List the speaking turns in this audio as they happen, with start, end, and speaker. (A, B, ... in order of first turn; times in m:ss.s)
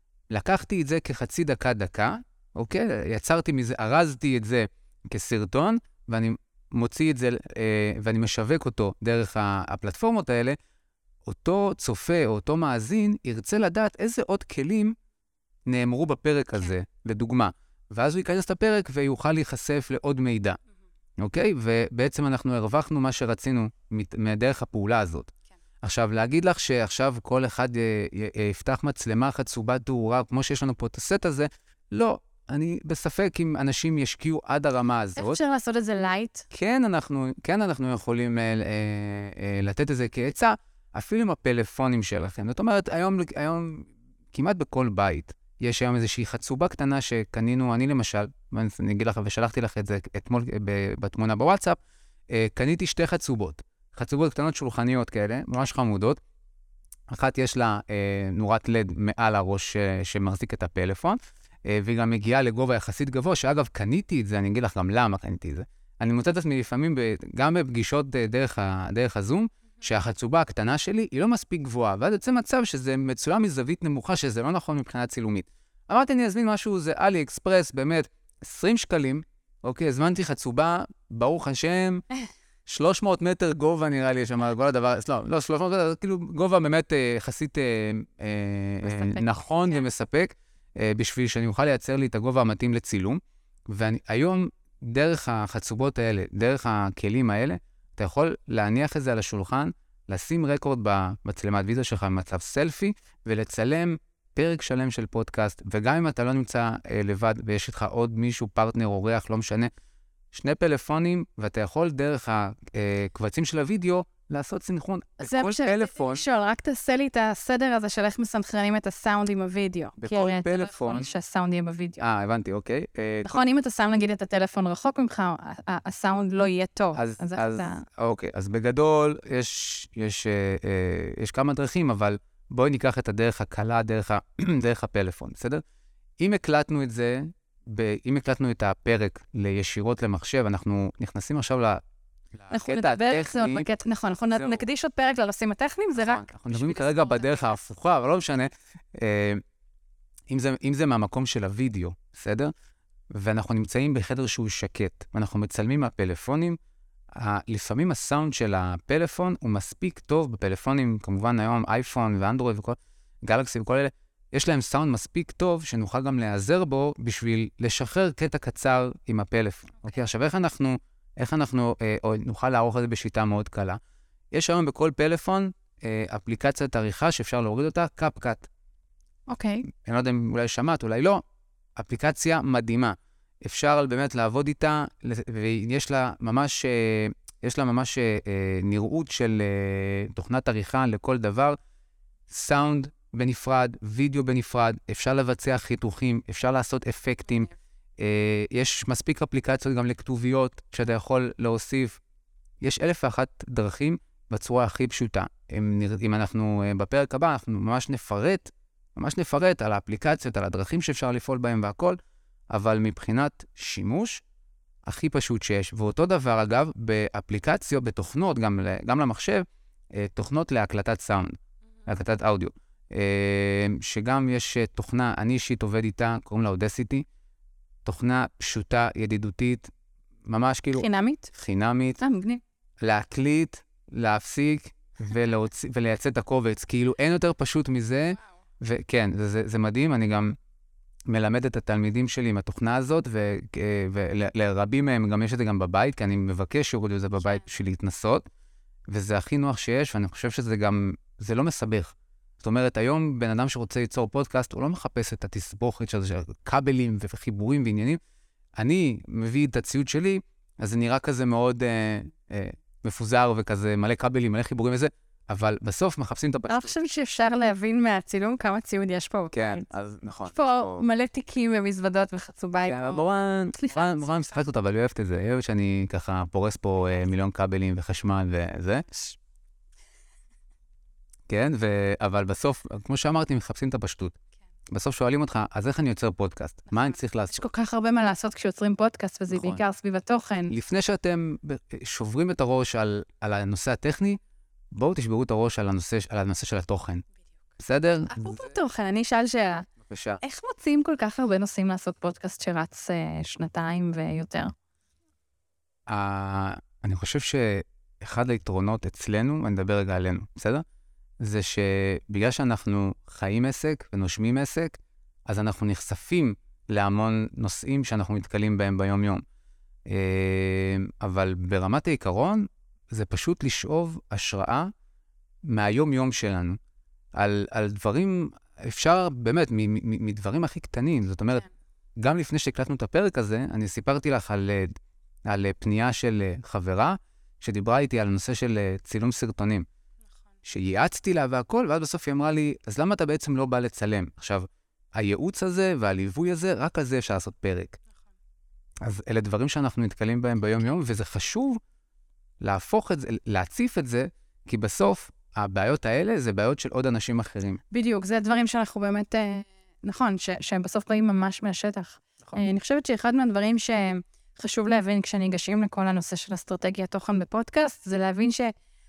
0:00.3-0:10.6 A
0:11.2-0:15.0 A
0:15.7-0:20.6 A
0:21.2-0:25.3 A
0:25.8-0:35.4 A
0:35.2-0:36.5 B
0:36.5-0:51.8 A
0:52.3-0:56.2 A
0:57.1-1:22.0 A
1:22.7-1:49.7 A
1:28.8-1:29.8 B
1:50.3-1:56.2 A
1:55.2-2:02.0 B
2:00.0-2:01.1 A
2:02.0-2:03.4 A
2:03.2-2:07.8 B
2:07.0-2:15.6 A
2:16.2-2:21.8 A
2:22.3-2:23.7 A
2:22.5-2:27.6 B
2:24.4-2:24.6 A
2:26.0-2:29.4 A
2:30.3-2:32.5 A
2:33.1-2:36.6 A
2:37.1-2:53.8 A
2:54.3-2:58.5 A
2:59.3-2:59.7 B
2:59.7-3:01.2 A
3:01.8-3:11.6 A
3:12.3-3:22.0 A
3:22.6-3:32.0 A
3:32.5-3:34.2 A
3:34.8-3:41.3 A
3:41.9-3:47.0 A
3:47.8-3:49.7 A
3:50.3-3:52.0 A
3:50.7-3:51.3 B
3:52.0-3:52.4 B
3:52.8-4:00.3 A
4:01.1-4:08.2 A
4:08.9-4:18.0 A
4:18.6-4:26.7 A
4:26.5-4:29.6 B
4:29.3-4:30.8 A
4:30.3-4:34.3 B
4:32.7-4:38.9 A
4:38.9-4:39.2 B
4:41.3-4:44.2 A
4:44.7-4:47.4 A
4:46.7-4:50.5 B
4:49.3-4:49.6 A
4:50.5-4:54.2 A
4:54.7-4:57.0 A
4:57.6-4:58.6 A
4:58.1-4:59.7 B
4:59.9-5:00.2 A
5:00.2-5:04.5 B
5:05.9-5:10.6 A
5:11.2-5:19.2 A
5:19.9-5:24.7 A
5:25.4-5:26.6 A
5:27.2-5:31.4 A
5:32.0-5:34.7 A
5:35.3-5:39.7 A
5:40.4-5:47.8 A
5:48.8-5:51.6 A
5:52.4-5:57.6 A
5:57.7-6:08.5 B